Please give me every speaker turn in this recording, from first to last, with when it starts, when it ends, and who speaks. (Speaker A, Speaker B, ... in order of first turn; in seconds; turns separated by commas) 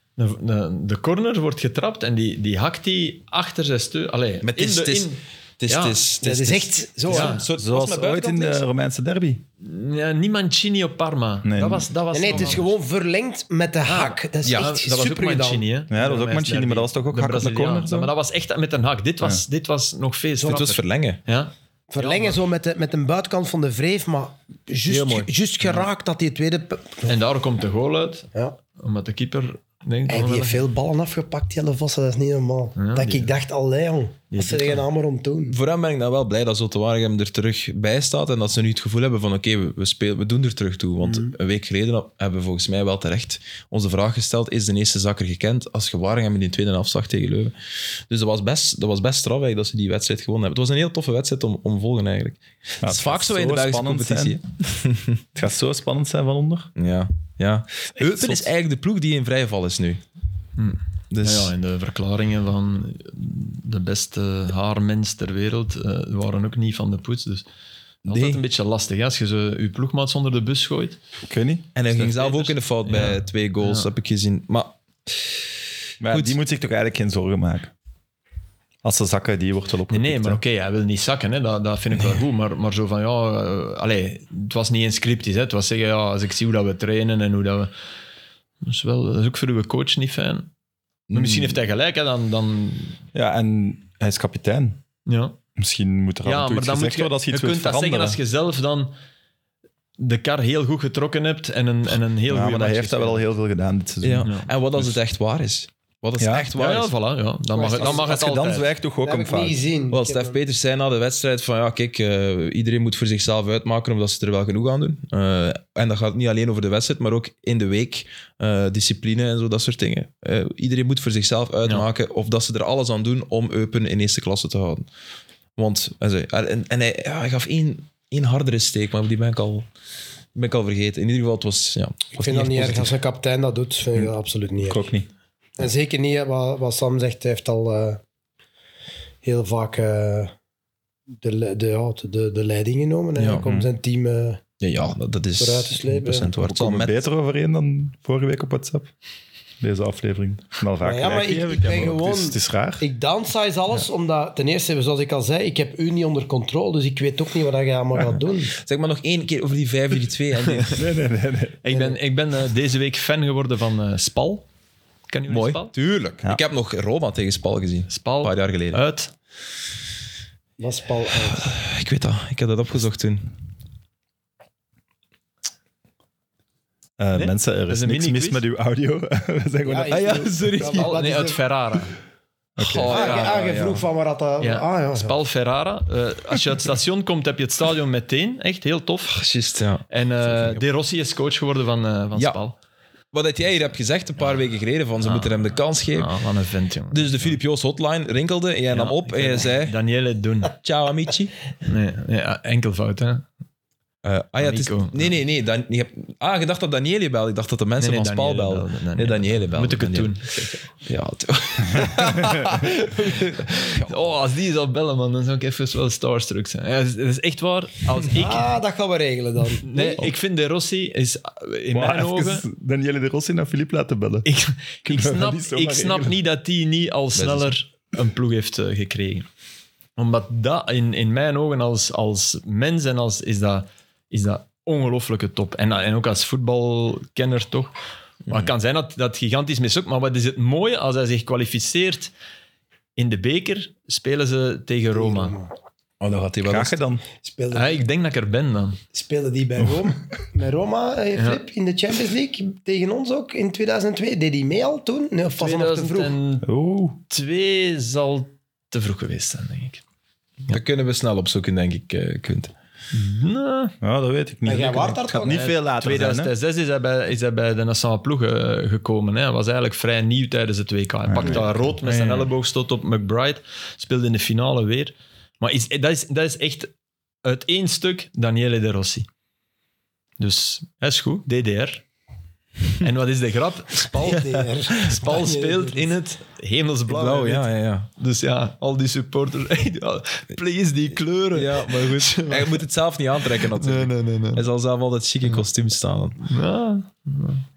Speaker A: 0.2-6.0, Speaker B: 4.4-8.6, Speaker C: 6.2-7.4, Speaker A: 7.1-7.5, Speaker D: 7.6-9.4, Speaker A: 9.6-12.7, Speaker D: 11.4-11.9, Speaker C: 12.1-15.6, Speaker A: 13.8-22.4, Speaker B: 14.4-14.7, Speaker D: 15.9-18.1, Speaker B: 20.4-21.2, Speaker C: 21.9-27.1, Speaker B: 24.9-25.3, Speaker A: 27.1-30.6, Speaker C: 30.1-35.5, Speaker A: 32.8-33.3, Speaker A: 34.3-34.8, Speaker B: 35.5-47.5, Speaker C: 41.0-41.3, Speaker B: 48.1-55.2, Speaker D: 52.8-54.4, Speaker D: 55.3-56.7, Speaker B: 56.8-60.0, Speaker D: 58.0-58.5, Speaker A: 60.6-67.5, Speaker B: 61.1-61.5, Speaker B: 68.0-68.4, Speaker A: 68.0-71.0, Speaker D: 71.2-71.7, Speaker B: 71.7-74.8, Speaker A: 71.9-73.9, Speaker D: 76.0-77.7, Speaker B: 76.1-76.3, Speaker D: 78.8-80.4, Speaker A: 79.9-87.7, Speaker A: 88.6-90.5, Speaker B: 91.1-91.6, Speaker A: 91.1-93.0, Speaker D: 93.1-94.8, Speaker A: 95.0-95.4, Speaker D: 95.6-98.2, Speaker A: 96.2-98.9, Speaker A: 100.0-103.2, Speaker D: 102.3-105.0, Speaker B: 104.0-106.9, Speaker A: 104.2-104.5, Speaker D: 106.2-106.5, Speaker A: 106.5-108.7, Speaker C: 107.5-108.1, Speaker D: 107.7-109.6, Speaker C: 109.0-110.4, Speaker B: 109.9-124.8, Speaker B: 125.5-129.7, Speaker B: 130.3-132.9, Speaker C: 132.1-134.9, Speaker D: 132.3-132.8, Speaker D: 133.9-135.1, Speaker C: 135.6-138.0, Speaker C: 139.2-140.3, Speaker C: 141.2-144.4, Speaker B: 143.2-143.5, Speaker B: 144.6-147.0, Speaker C: 145.4-146.3, Speaker D: 146.3-148.9, Speaker D: 149.6-152.8, Speaker C: 150.8-158.5, Speaker B: 158.5-160.8, Speaker A: 160.4-160.8, Speaker D: 160.7-161.6, Speaker A: 161.6-164.4, Speaker C: 161.7-162.0, Speaker A: 165.1-165.7, Speaker B: 165.3-168.8, Speaker A: 167.9-169.1, Speaker C: 170.6-171.5, Speaker B: 171.3-173.3, Speaker D: 177.0-180.3, Speaker A: 177.1-178.4, Speaker C: 179.7-181.4, Speaker B: 179.9-181.0, Speaker A: 180.7-182.0, Speaker D: 182.6-182.9, Speaker B: 182.6-183.8, Speaker A: 182.6-183.4, Speaker C: 182.9-185.1, Speaker A: 184.4-189.2, Speaker B: 189.1-190.6, Speaker A: 189.9-192.6, Speaker B: 193.1-196.1, Speaker A: 195.0-197.4, Speaker B: 196.9-199.7, Speaker A: 198.7-200.5, Speaker B: 200.6-201.3, Speaker A: 201.6-203.2, Speaker B: 204.0-214.1, Speaker A: 204.4-205.2, Speaker A: 207.8-210.5, Speaker A: 213.1-218.5, Speaker C: 218.1-220.0, Speaker A: 219.6-222.4, Speaker D: 221.7-224.3, Speaker A: 224.2-229.2, Speaker D: 224.8-226.2, Speaker B: 227.1-227.5, Speaker A: 230.0-237.7, Speaker A: 238.3-242.1, Speaker A: 242.9-245.3, Speaker C: 244.9-245.5, Speaker B: 246.0-246.8, Speaker D: 246.4-247.0, Speaker C: 247.2-247.8, Speaker A: 247.5-248.8, Speaker C: 248.9-256.1, Speaker A: 255.4-256.5, Speaker D: 256.4-257.0, Speaker A: 257.1-259.8, Speaker B: 260.5-262.5, Speaker A: 262.9-263.7, Speaker D: 263.8-266.3, Speaker C: 264.4-265.4, Speaker A: 265.3-276.7, Speaker D: 271.1-272.0, Speaker A: 277.2-279.1, Speaker A: 280.2-281.8, Speaker A: 282.8-294.4, Speaker C: 283.9-285.9, Speaker B: 286.9-287.9, Speaker B: 291.3-296.2, Speaker A: 296.2-297.4